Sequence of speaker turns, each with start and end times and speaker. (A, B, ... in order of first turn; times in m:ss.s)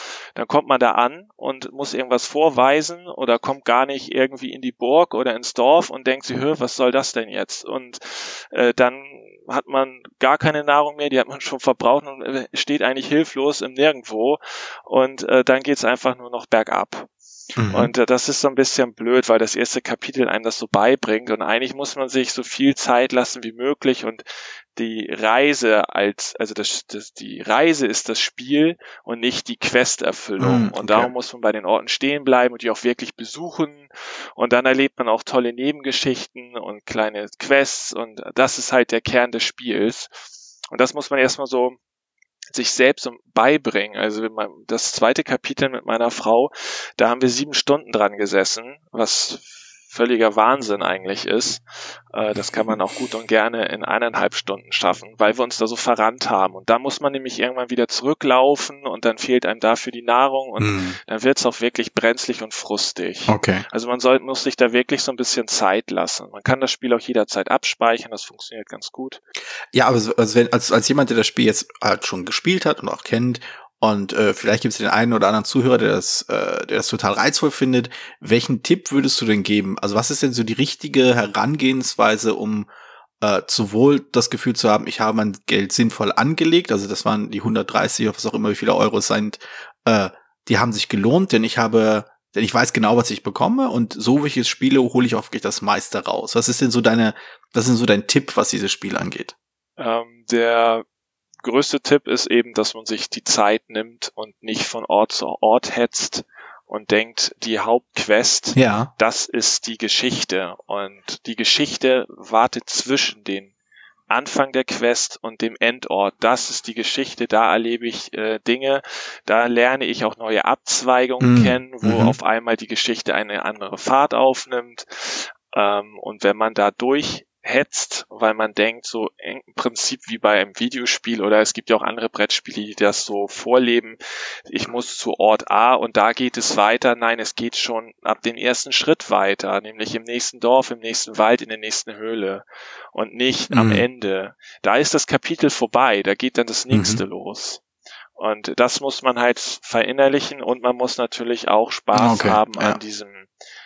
0:00.4-0:17.1 A
0:17.6-0:17.9 B
0:17.7-0:24.2 A
0:24.8-0:41.8 A
0:30.4-0:31.1 B
0:42.5-1:09.2 A
1:00.6-1:01.0 B
1:03.3-1:03.6 B
1:09.7-1:22.7 B
1:23.2-1:39.4 B
1:39.8-1:40.8 A
1:41.4-1:53.5 A
1:48.6-1:48.9 B
1:54.1-2:27.6 A
2:01.2-2:02.2 B
2:23.5-2:23.8 B
2:26.7-2:27.0 B
2:28.2-2:33.3 A
2:31.9-2:32.8 B